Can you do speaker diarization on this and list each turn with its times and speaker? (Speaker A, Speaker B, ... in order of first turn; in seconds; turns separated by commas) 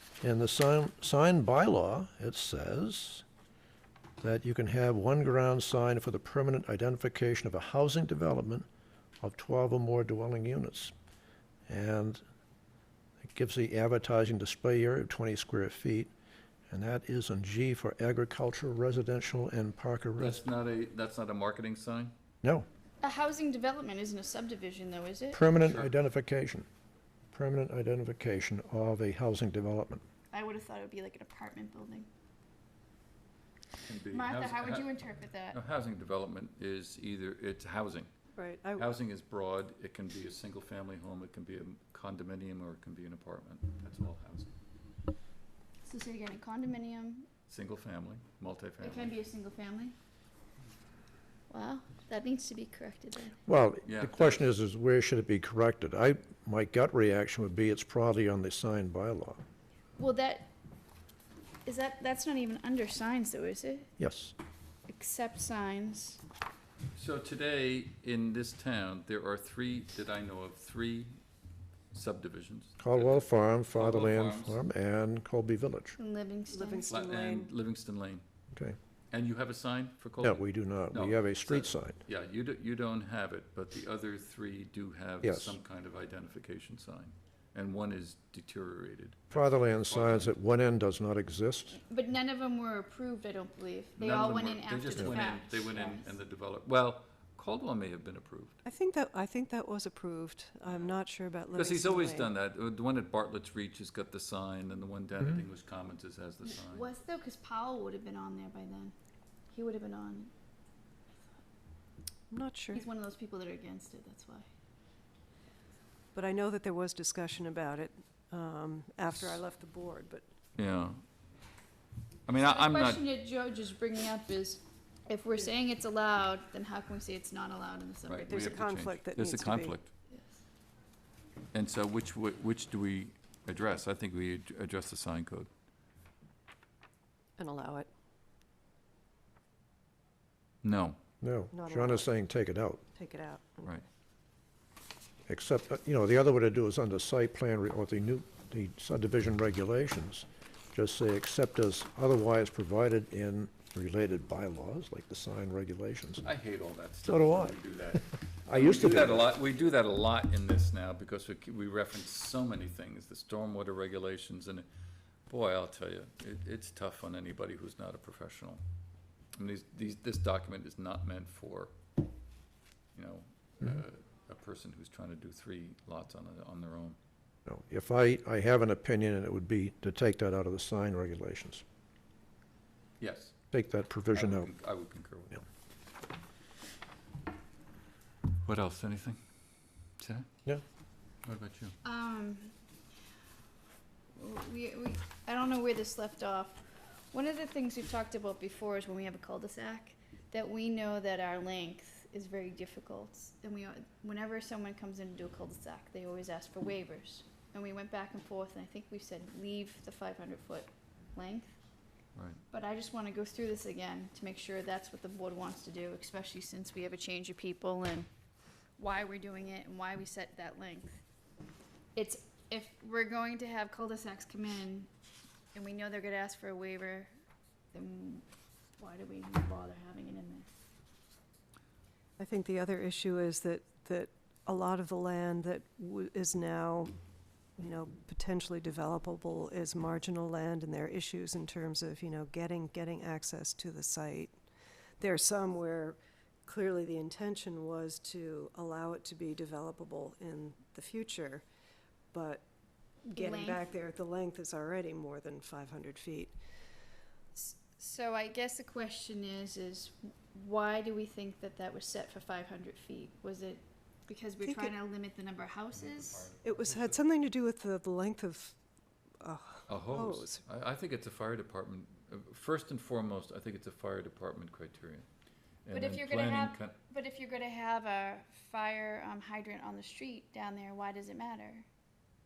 Speaker A: 0.2-3.2, Speaker A: 4.2-8.7, Speaker A: 9.2-10.9, Speaker A: 11.7-12.2, Speaker A: 13.2-16.1, Speaker A: 16.7-20.4, Speaker B: 20.2-22.1, Speaker C: 23.0-25.4, Speaker A: 25.3-26.7, Speaker B: 25.6-25.9, Speaker A: 27.3-30.0, Speaker C: 30.3-32.1, Speaker B: 33.8-34.9, Speaker C: 34.1-35.6, Speaker B: 35.5-38.1, Speaker D: 38.4-38.9, Speaker B: 38.8-44.5, Speaker C: 45.8-47.3, Speaker B: 47.5-49.1, Speaker C: 48.8-50.0, Speaker C: 51.5-53.4, Speaker A: 53.5-59.4, Speaker B: 53.9-54.5, Speaker C: 60.0-60.5, Speaker C: 61.6-63.9, Speaker A: 64.0-64.3, Speaker C: 64.9-66.2, Speaker B: 67.0-71.2, Speaker B: 71.9-74.6, Speaker A: 72.8-76.0, Speaker C: 76.0-76.9, Speaker D: 76.5-77.5, Speaker B: 76.9-78.2, Speaker B: 79.1-90.3, Speaker A: 80.2-82.0, Speaker A: 85.2-85.6, Speaker A: 89.3-91.8, Speaker C: 91.8-96.1, Speaker B: 94.0-98.6, Speaker D: 98.7-102.3, Speaker B: 100.7-101.0, Speaker B: 101.5-106.9, Speaker C: 106.6-108.9, Speaker C: 109.5-110.3, Speaker D: 112.3-112.8, Speaker C: 112.7-114.5, Speaker D: 116.2-120.3, Speaker B: 120.6-121.0, Speaker B: 122.3-123.0, Speaker C: 122.4-128.4, Speaker B: 128.1-129.9, Speaker D: 128.2-129.8, Speaker C: 130.1-130.4, Speaker B: 131.5-135.5, Speaker D: 137.4-137.9, Speaker B: 140.6-141.0, Speaker A: 141.2-142.8, Speaker D: 141.5-142.1, Speaker D: 142.9-143.8, Speaker A: 145.3-156.3, Speaker B: 156.2-164.7, Speaker A: 157.0-157.6, Speaker A: 158.4-159.3, Speaker B: 165.3-168.6, Speaker B: 169.3-171.7, Speaker B: 172.9-177.0, Speaker A: 177.5-181.6, Speaker B: 183.0-183.3, Speaker A: 183.5-184.5, Speaker B: 184.1-185.5, Speaker B: 188.4-189.2, Speaker B: 190.0-190.3, Speaker B: 191.2-191.8, Speaker C: 191.8-192.5, Speaker C: 194.2-211.6, Speaker B: 212.2-212.4, Speaker C: 212.5-218.1, Speaker C: 218.8-221.0, Speaker C: 221.9-224.9, Speaker C: 225.5-227.1, Speaker C: 227.7-228.2, Speaker C: 228.8-230.5, Speaker D: 232.2-236.9, Speaker D: 237.6-244.4, Speaker D: 245.0-251.4, Speaker D: 252.1-252.4, Speaker D: 253.1-256.4, Speaker C: 253.1-253.7, Speaker C: 257.3-266.3, Speaker D: 264.4-264.7, Speaker B: 265.8-267.0, Speaker D: 266.4-268.6, Speaker D: 269.2-270.4, Speaker B: 269.7-275.1, Speaker B: 275.6-276.8, Speaker C: 275.7-281.7